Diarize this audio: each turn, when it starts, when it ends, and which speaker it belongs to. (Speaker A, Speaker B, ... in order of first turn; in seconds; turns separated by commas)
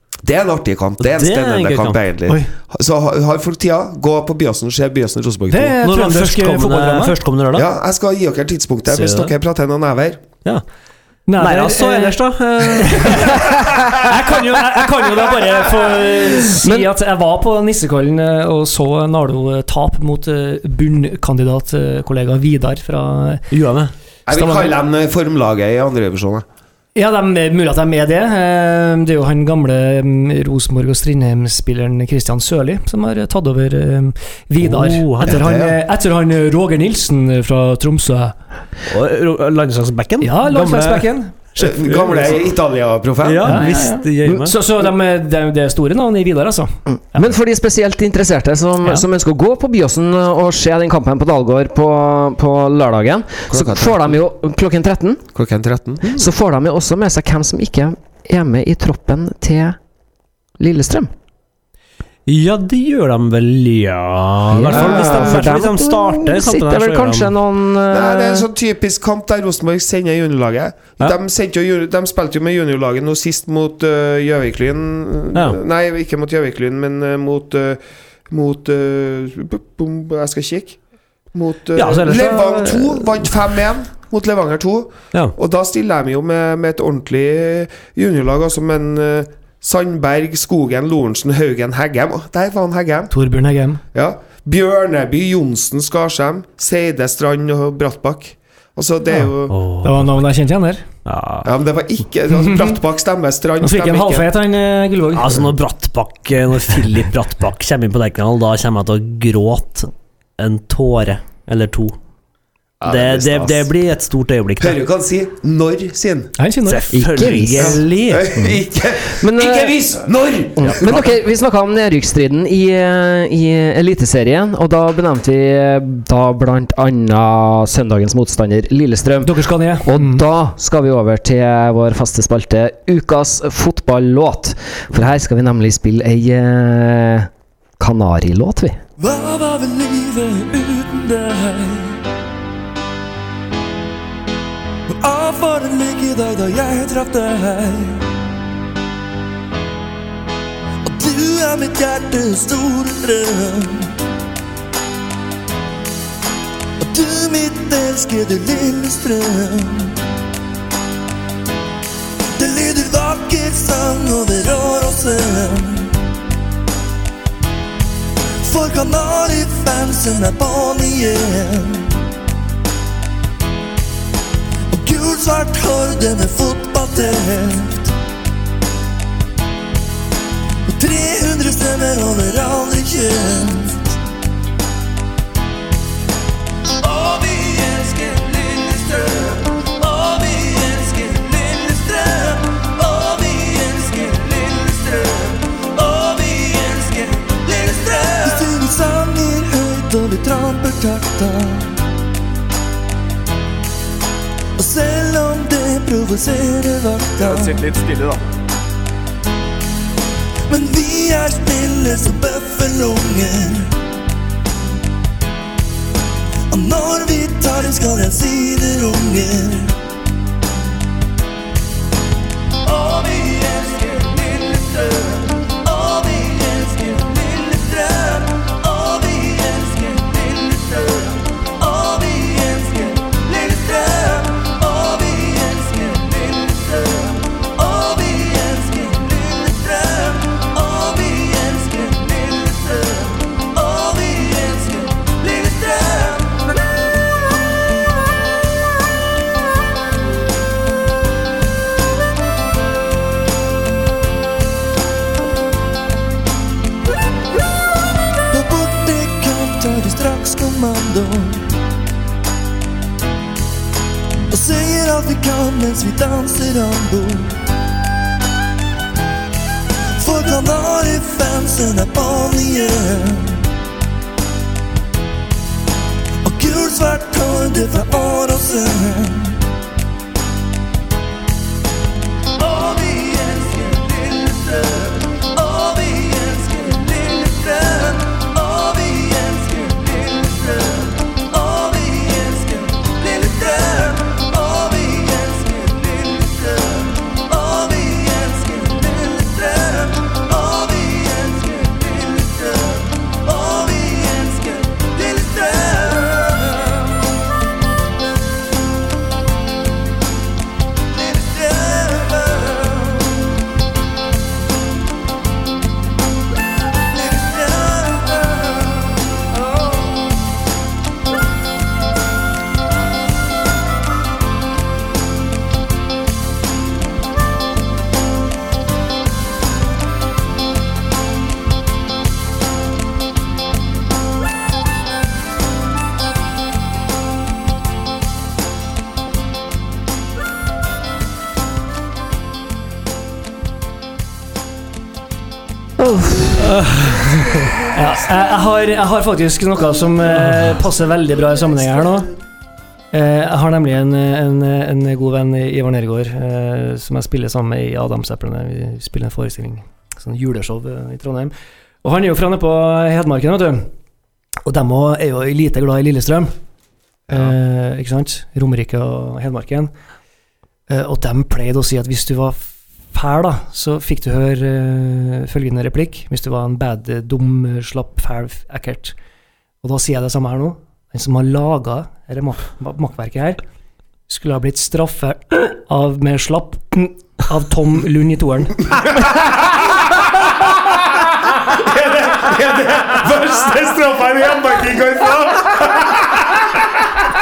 Speaker A: 0.2-5.8, Speaker B: 1.0-2.0, Speaker C: 5.5-7.1, Speaker B: 5.8-7.7, Speaker A: 7.5-10.2, Speaker B: 8.9-9.3, Speaker C: 11.3-12.2, Speaker B: 11.4-13.9, Speaker C: 12.8-23.4, Speaker B: 23.5-23.9, Speaker A: 24.3-26.4, Speaker C: 24.3-24.7, Speaker C: 26.9-38.4, Speaker B: 34.6-35.5, Speaker A: 35.2-35.8, Speaker B: 38.9-42.4, Speaker C: 40.2-41.3, Speaker A: 41.6-43.7, Speaker B: 43.2-44.5, Speaker C: 43.4-47.2, Speaker D: 47.1-55.3, Speaker A: 53.5-54.2, Speaker A: 55.3-56.2, Speaker D: 56.1-59.8, Speaker D: 60.6-61.1, Speaker B: 62.3-67.3, Speaker D: 64.5-68.5, Speaker A: 64.7-65.5, Speaker A: 67.9-80.8, Speaker A: 81.3-93.1, Speaker B: 81.7-83.2, Speaker C: 93.1-93.8, Speaker A: 93.9-99.5, Speaker B: 99.5-100.2, Speaker C: 99.8-100.8, Speaker B: 101.0-101.5, Speaker A: 101.4-104.3, Speaker C: 102.3-102.8, Speaker C: 103.6-105.3, Speaker B: 105.1-112.0, Speaker A: 112.8-113.7, Speaker B: 112.8-114.8, Speaker A: 114.6-116.3, Speaker C: 116.4-116.9, Speaker B: 116.7-118.4, Speaker D: 116.9-117.8, Speaker A: 117.6-121.2, Speaker D: 119.1-119.8, Speaker D: 120.6-138.8, Speaker C: 129.2-130.2, Speaker E: 139.0-142.0, Speaker E: 144.9-148.0, Speaker E: 150.8-153.9, Speaker E: 156.8-160.0, Speaker E: 162.4-166.0, Speaker E: 168.4-171.9, Speaker E: 174.7-177.9, Speaker E: 180.7-183.9, Speaker E: 186.8-201.8, Speaker E: 204.6-207.7, Speaker E: 210.5-213.7, Speaker E: 216.5-219.7, Speaker E: 222.6-246.6, Speaker E: 258.3-261.4, Speaker E: 264.3-267.4, Speaker E: 270.0-273.4, Speaker E: 276.2-279.4, Speaker E: 282.4-306.9, Speaker E: 310.9-313.3, Speaker E: 316.9-319.8, Speaker D: 345.8-346.4, Speaker B: 346.5-347.4, Speaker C: 347.7-352.1, Speaker C: 352.9-361.3, Speaker C: 361.8-363.7, Speaker C: 364.4-366.3, Speaker C: 367.1-369.7, Speaker C: 370.7-378.9, Speaker C: 379.6-383.4, Speaker C: 384.1-388.7, Speaker A: 391.4-396.2